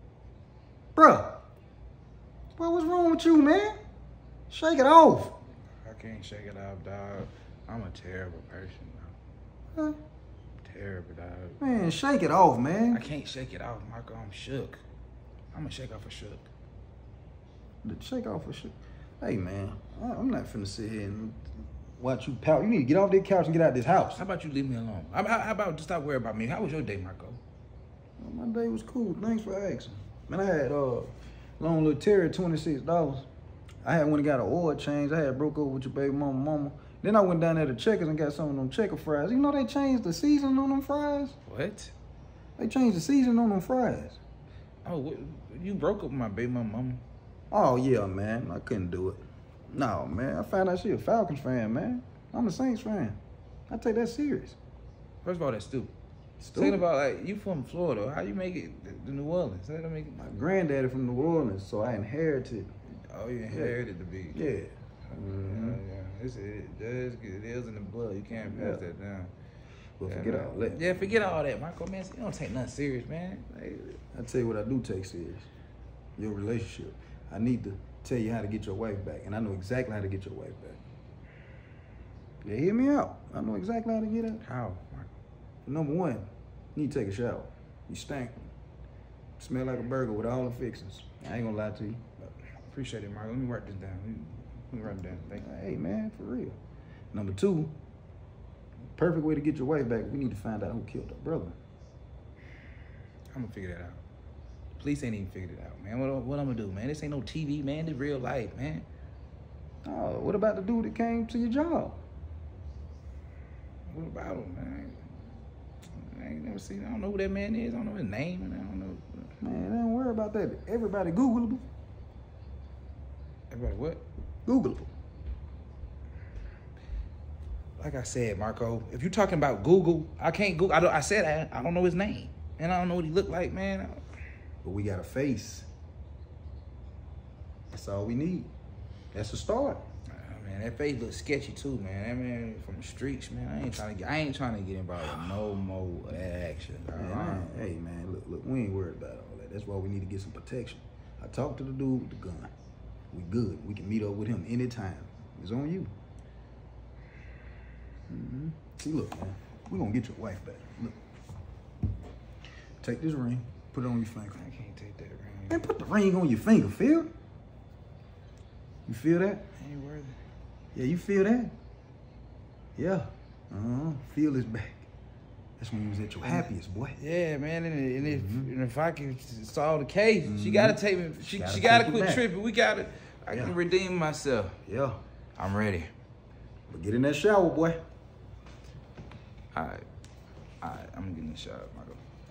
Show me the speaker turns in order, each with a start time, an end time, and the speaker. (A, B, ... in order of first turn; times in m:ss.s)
0:01.0-0:01.4 A
0:02.6-0:03.8 A
0:04.5-0:05.4 A
0:05.8-0:09.2 B
0:10.6-0:11.6 B
0:11.6-0:13.0 A
0:12.9-0:14.8 B
0:15.5-0:16.5 B
0:17.8-0:21.5 A
0:22.0-0:24.2 A
0:24.2-0:27.4 B
0:28.2-0:33.3 A
0:33.8-0:41.4 A
0:41.5-0:41.9 B
0:42.6-0:44.2 A
0:44.8-0:47.0 B
0:47.5-0:53.2 A
0:53.7-0:54.6 A
0:55.2-0:55.9 B
0:56.4-0:56.9 A
0:56.5-1:00.2 B
1:00.2-1:02.7 A
1:03.1-1:04.4 B
1:03.5-1:03.8 A
1:04.3-1:05.8 A
1:05.1-1:09.3 B
1:08.4-1:08.8 A
1:10.0-1:11.4 A
1:10.1-1:14.0 B
1:14.1-1:15.5 A
1:16.2-1:20.8 A
1:22.4-1:24.4 A
1:24.4-1:25.1 B
1:25.6-1:28.5 A
1:29.4-1:32.1 A
1:32.2-1:35.5 B
1:35.3-1:36.6 A
1:37.1-1:37.7 A
1:39.0-1:41.6 A
1:43.3-1:44.0 B
1:44.8-1:48.9 B
1:49.8-1:52.0 A
1:53.9-1:55.1 B
1:55.9-1:59.3 B
1:59.4-2:01.6 A
2:03.5-2:04.0 B
2:04.5-2:04.9 A
2:07.8-2:14.0 B
2:14.6-2:15.7 A
2:17.7-2:18.5 A
2:19.1-2:19.8 A
2:20.1-2:27.6 B
2:26.9-2:32.5 A
2:33.1-2:35.9 A
2:38.1-2:41.0 A
2:42.8-2:44.4 A
2:44.3-2:45.7 B
2:45.5-2:47.1 A
2:48.9-2:49.5 A
2:49.6-2:50.2 B
2:50.7-2:51.5 A
2:52.8-2:54.9 A
2:55.6-2:57.0 A
2:56.2-3:04.6 B
2:58.0-2:58.5 A
3:00.2-3:02.2 A
3:04.6-3:05.0 A
3:05.4-3:05.9 B
3:06.7-3:07.8 A
3:09.5-3:09.9 B
3:10.6-3:12.0 B